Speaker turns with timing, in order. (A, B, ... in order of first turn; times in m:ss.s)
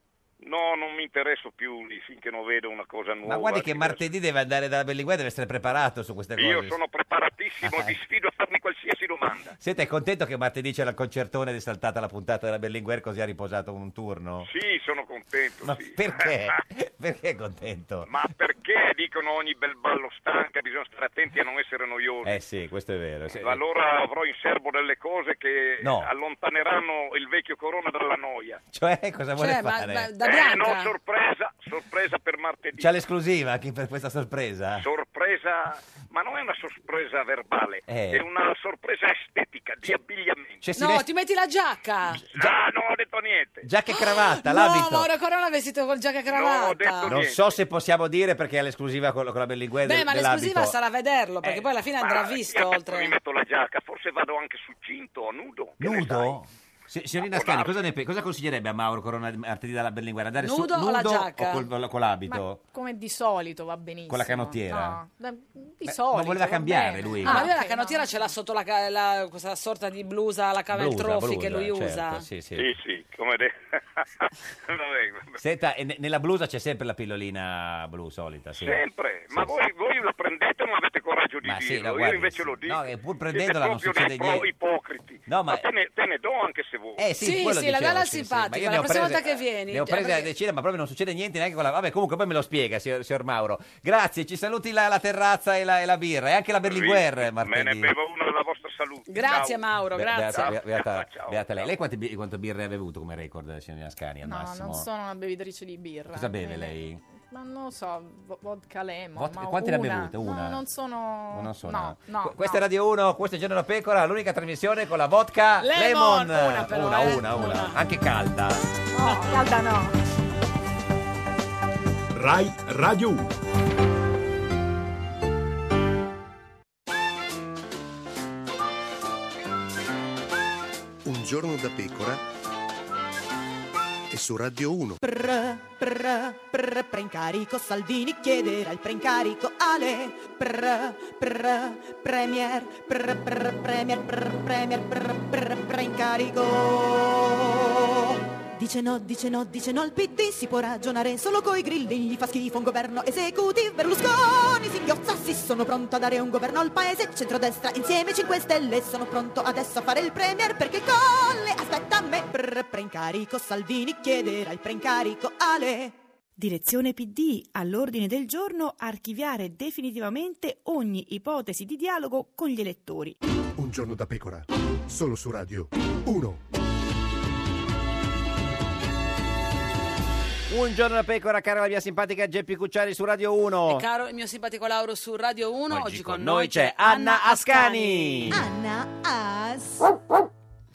0:00.4-0:04.0 A
0:03.2-0:06.8 B
0:06.4-0:09.6 A
0:07.6-0:08.0 B
0:09.6-0:14.5 B
0:14.4-0:16.3 A
0:15.6-0:18.1 B
0:18.0-0:22.4 A
0:22.2-0:23.6 B
0:23.4-0:28.6 A
0:25.8-0:26.1 B
0:28.7-0:30.1 B
0:29.4-0:30.9 C
0:30.2-0:32.9 A
0:32.8-0:34.8 B
0:34.8-0:40.6 A
0:37.9-0:38.2 B
0:40.6-0:41.0 B
0:40.8-0:42.2 C
0:42.2-0:42.6 B
0:42.3-0:43.7 A
0:43.6-0:45.1 B
0:43.9-0:47.2 C
0:46.3-0:47.5 A
0:47.0-0:50.8 B
0:49.8-0:53.1 C
0:51.4-0:51.7 B
0:52.0-0:56.4 A
0:55.8-1:02.6 B
0:57.2-0:57.8 A
1:00.4-1:01.7 C
1:02.3-1:08.2 D
1:04.1-1:05.0 B
1:05.8-1:07.5 B
1:07.2-1:12.3 C
1:10.7-1:12.7 B
1:12.5-1:15.4 A
1:15.4-1:18.8 B
1:18.6-1:27.0 A
1:21.4-1:24.5 B
1:25.3-1:25.6 B
1:27.0-1:37.9 B
1:27.2-1:30.3 C
1:36.6-1:39.6 A
1:39.1-1:40.6 C
1:39.9-1:44.9 B
1:40.3-1:41.7 A
1:44.2-1:52.6 D
1:46.1-1:47.0 B
1:49.2-1:50.6 B
1:51.3-1:58.6 B
1:55.6-1:57.8 C
1:58.9-1:59.9 D
1:59.0-1:59.4 C
2:11.0-2:12.2 E
2:14.1-2:15.0 E
2:15.0-2:45.9 F
2:46.4-2:53.2 G
2:53.6-2:56.4 E
3:00.5-3:03.8 B
3:03.7-3:08.3 C
3:05.7-3:08.4 B
3:08.3-3:09.9 F